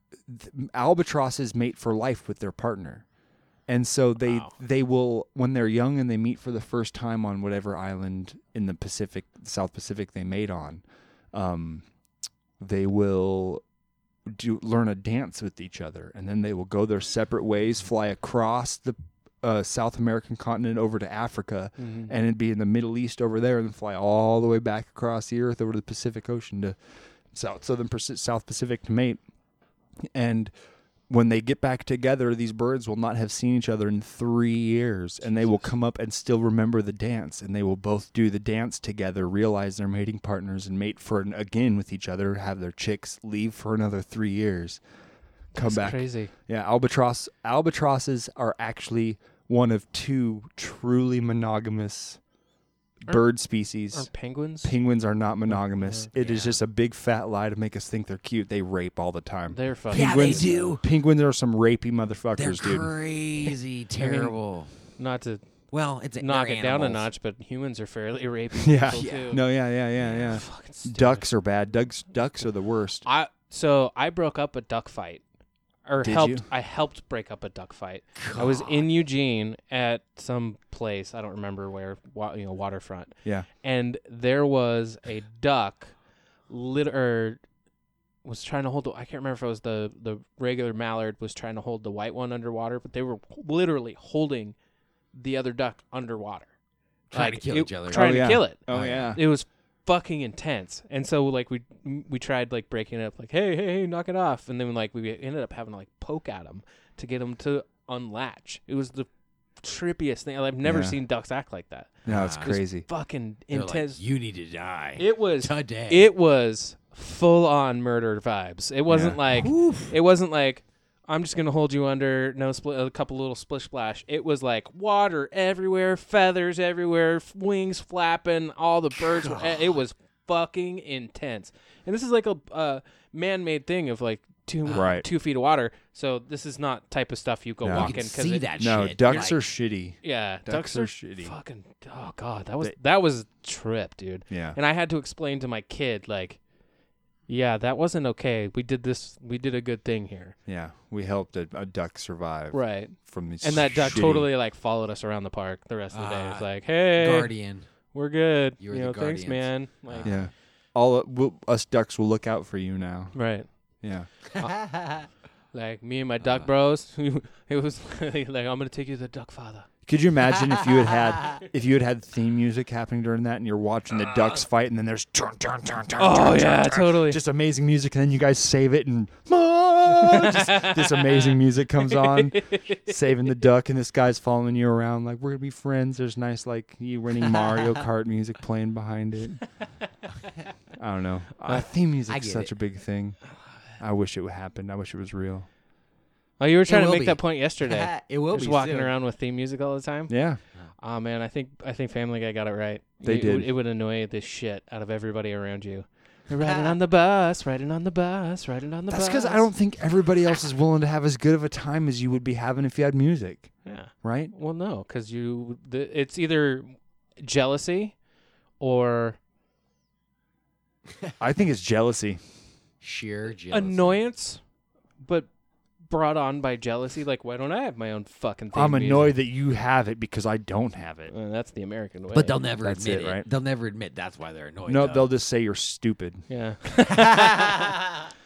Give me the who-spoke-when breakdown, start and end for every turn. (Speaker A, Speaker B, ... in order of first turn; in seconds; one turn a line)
Speaker A: 0.2-3.0
Speaker A: 3.6-11.8
Speaker B: 4.2-4.5
Speaker A: 12.6-13.6
Speaker A: 14.2-29.2
Speaker B: 21.8-22.1
Speaker A: 30.1-30.5
Speaker A: 31.1-44.8
Speaker B: 35.2-35.7
Speaker B: 45.5-46.3
Speaker A: 45.5-52.2
Speaker A: 53.0-63.5
Speaker B: 53.1-54.8
Speaker B: 55.4-56.1
Speaker C: 56.2-56.6
Speaker B: 59.5-60.8
Speaker C: 59.9-60.8
Speaker C: 62.4-64.7
Speaker A: 64.0-64.3
Speaker B: 65.0-69.7
Speaker C: 65.7-67.1
Speaker A: 68.6-73.0
Speaker C: 68.9-70.5
Speaker B: 70.3-71.3
Speaker B: 73.0-75.2
Speaker B: 75.8-87.4
Speaker A: 76.0-76.5
Speaker C: 78.2-78.8
Speaker B: 88.2-94.6
Speaker B: 95.1-96.5
Speaker B: 97.1-112.0
Speaker C: 97.1-99.1
Speaker A: 97.9-99.2
Speaker A: 110.6-111.0
Speaker A: 112.0-112.8
Speaker C: 112.0-112.6
Speaker B: 112.8-114.0
Speaker C: 113.5-116.1
Speaker B: 115.0-139.4
Speaker A: 118.9-119.2
Speaker C: 119.3-119.9
Speaker C: 129.2-129.7
Speaker C: 134.6-135.0
Speaker A: 134.7-135.1
Speaker A: 137.6-137.9
Speaker C: 137.7-139.4
Speaker A: 138.6-141.3
Speaker B: 140.0-146.4
Speaker A: 144.3-144.6
Speaker B: 147.3-150.3
Speaker A: 150.4-154.3
Speaker B: 152.5-160.3
Speaker C: 155.9-157.9
Speaker C: 158.6-160.2
Speaker A: 160.0-164.1
Speaker B: 163.1-169.7
Speaker C: 164.6-165.0
Speaker C: 166.2-166.5
Speaker A: 169.8-189.6
Speaker B: 176.0-177.2
Speaker B: 179.9-183.0
Speaker A: 190.8-195.5
Speaker C: 192.1-192.5
Speaker B: 196.4-209.5
Speaker C: 196.7-198.9
Speaker A: 200.1-200.4
Speaker A: 203.0-203.5
Speaker C: 206.4-206.7
Speaker A: 208.9-214.3
Speaker B: 213.6-218.0
Speaker B: 218.6-219.2
Speaker A: 221.2-222.2
Speaker C: 222.8-224.0
Speaker B: 223.5-224.4
Speaker B: 225.0-225.3
Speaker B: 225.8-229.2
Speaker A: 228.5-231.1
Speaker B: 231.1-232.4
Speaker C: 232.1-235.1
Speaker A: 232.6-233.2
Speaker A: 234.7-236.3
Speaker B: 236.3-237.7
Speaker C: 236.9-238.0